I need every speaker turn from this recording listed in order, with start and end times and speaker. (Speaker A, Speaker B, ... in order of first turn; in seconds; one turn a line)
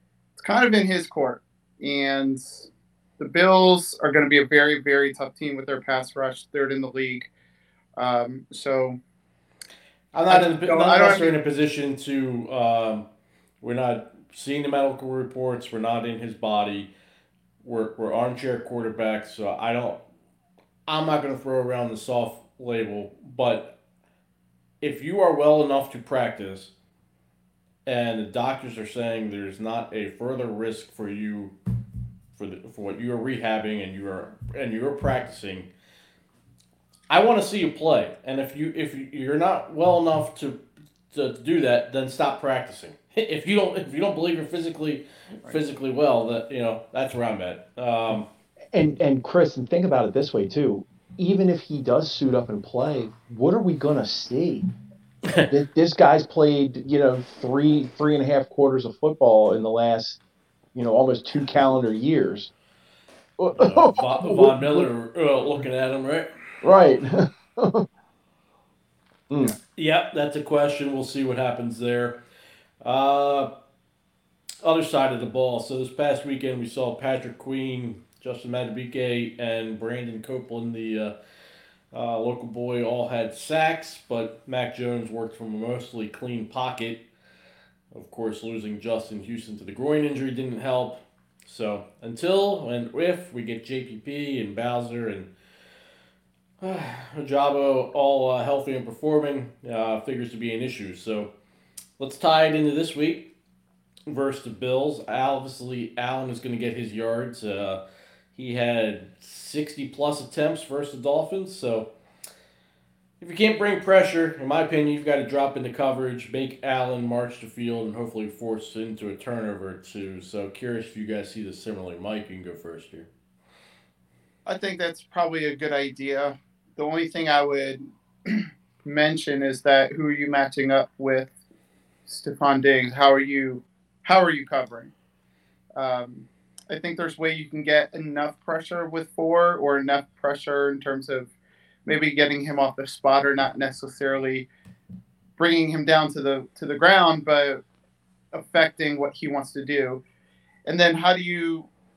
Speaker A: 0.4-2.7
Speaker A: 3.2-7.3
Speaker A: 8.0-9.0
Speaker B: 10.1-13.1
Speaker A: 10.3-11.3
Speaker B: 13.6-16.9
Speaker B: 17.6-20.0
Speaker B: 20.9-23.8
Speaker B: 24.8-26.7
Speaker B: 27.9-31.5
Speaker B: 32.4-35.7
Speaker B: 37.1-40.6
Speaker B: 41.1-48.3
Speaker C: 48.7-54.7
Speaker C: 55.5-60.2
Speaker C: 60.7-62.5
Speaker C: 63.4-64.9
Speaker B: 63.5-66.3
Speaker C: 66.6-67.9
Speaker C: 69.3-69.5
Speaker B: 69.8-72.2
Speaker B: 72.8-73.5
Speaker B: 74.6-81.1
Speaker B: 81.9-87.0
Speaker B: 87.9-95.3
Speaker B: 96.6-101.3
Speaker B: 102.0-103.3
Speaker B: 104.1-107.8
Speaker B: 108.3-111.9
Speaker B: 113.2-123.1
Speaker A: 124.5-131.3
Speaker A: 132.1-134.9
Speaker A: 135.8-141.3
Speaker A: 141.8-144.5
Speaker A: 145.4-147.6
Speaker A: 148.3-150.0
Speaker A: 150.7-151.7